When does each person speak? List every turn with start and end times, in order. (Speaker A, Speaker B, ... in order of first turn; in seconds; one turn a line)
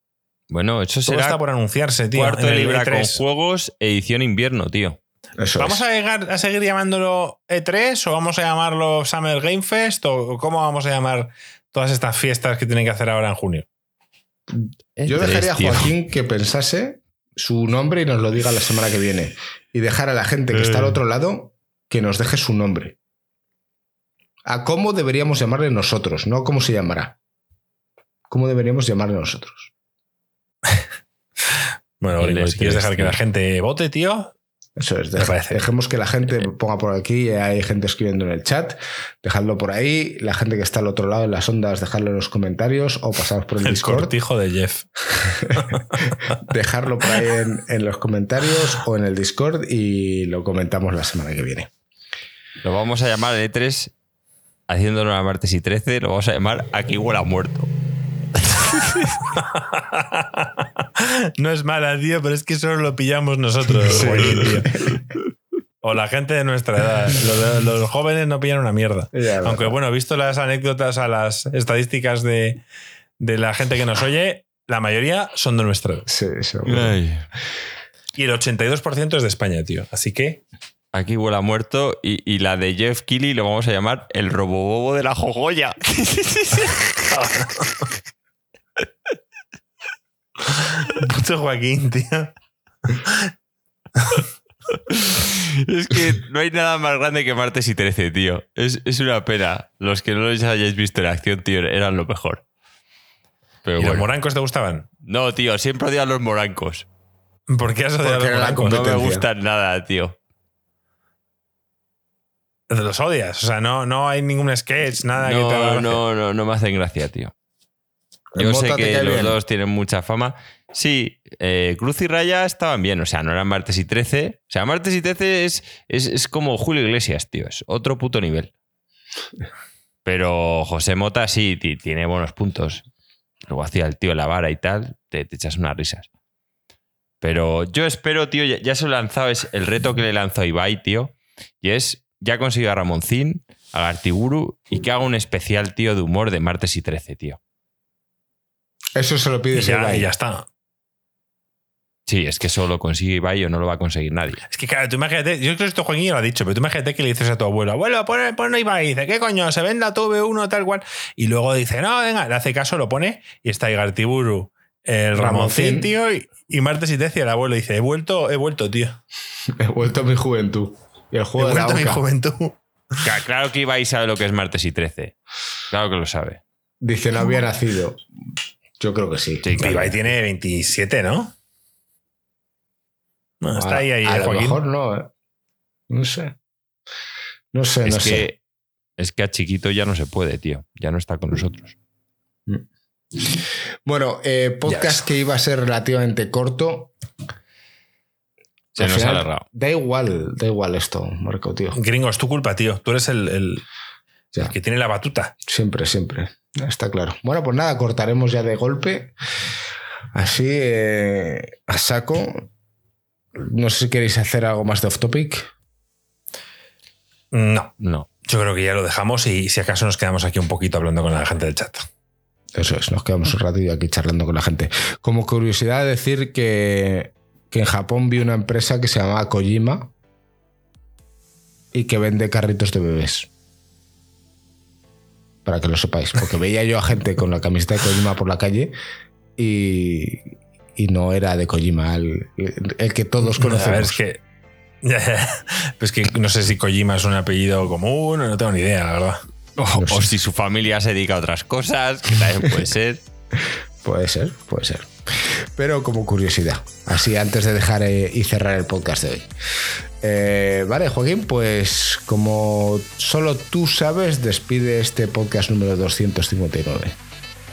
Speaker A: 0.5-1.4
Speaker B: 1.1-3.2
Speaker A: 2.1-5.0
Speaker C: 5.4-5.8
Speaker B: 5.6-13.6
Speaker C: 14.5-22.9
Speaker A: 15.0-15.9
Speaker A: 20.5-21.0
Speaker C: 24.4-27.2
Speaker C: 28.3-29.7
Speaker B: 31.5-34.3
Speaker A: 32.2-33.2
Speaker C: 34.8-44.1
Speaker B: 35.2-35.6
Speaker B: 43.6-44.8
Speaker C: 45.1-51.7
Speaker B: 45.5-46.4
Speaker A: 52.6-53.9
Speaker A: 54.7-57.7
Speaker A: 58.8-59.1
Speaker B: 59.3-64.9
Speaker C: 63.8-65.0
Speaker B: 65.8-72.6
Speaker C: 69.1-69.7
Speaker B: 73.2-76.1
Speaker C: 76.1-77.0
Speaker A: 76.7-77.3
Speaker B: 78.2-80.4
Speaker A: 80.9-87.5
Speaker B: 87.1-87.9
Speaker B: 90.4-92.3
Speaker B: 92.9-93.3
Speaker B: 94.0-94.2
Speaker A: 94.9-102.4
Speaker A: 103.6-104.0
Speaker B: 103.8-104.9
Speaker A: 105.0-106.8
Speaker B: 107.5-108.9
Speaker C: 108.0-109.2
Speaker A: 108.6-110.1
Speaker B: 112.7-116.0
Speaker A: 115.2-117.3
Speaker C: 118.3-119.4
Speaker A: 118.4-128.5
Speaker A: 130.0-132.8
Speaker A: 133.5-136.1
Speaker A: 137.2-147.4
Speaker C: 148.9-150.1
Speaker B: 149.5-150.4
Speaker A: 152.1-154.4
Speaker B: 154.5-169.0
Speaker C: 165.1-165.9
Speaker C: 169.5-172.0
Speaker B: 171.4-173.0
Speaker A: 173.0-175.1
Speaker A: 175.7-176.4
Speaker C: 176.8-178.0
Speaker C: 178.8-179.4
Speaker A: 179.4-180.0
Speaker B: 179.6-181.3
Speaker B: 183.4-184.6
Speaker C: 183.6-185.1
Speaker C: 185.9-186.3
Speaker C: 187.5-188.3
Speaker A: 187.8-188.4
Speaker A: 189.0-191.8
Speaker C: 193.1-196.9
Speaker B: 194.7-195.0
Speaker A: 198.8-199.4
Speaker C: 198.8-201.8
Speaker B: 201.7-203.6
Speaker B: 204.4-205.3
Speaker C: 205.4-209.1
Speaker C: 210.1-212.5
Speaker C: 213.3-215.5
Speaker B: 217.3-217.7
Speaker A: 217.8-218.1
Speaker B: 218.2-221.8
Speaker C: 222.6-229.9
Speaker C: 231.7-233.3
Speaker C: 235.4-238.7
Speaker C: 239.4-244.0
Speaker B: 243.3-244.2
Speaker B: 244.8-249.2
Speaker A: 249.6-253.0
Speaker C: 249.7-250.1
Speaker C: 253.4-259.3
Speaker C: 260.0-267.0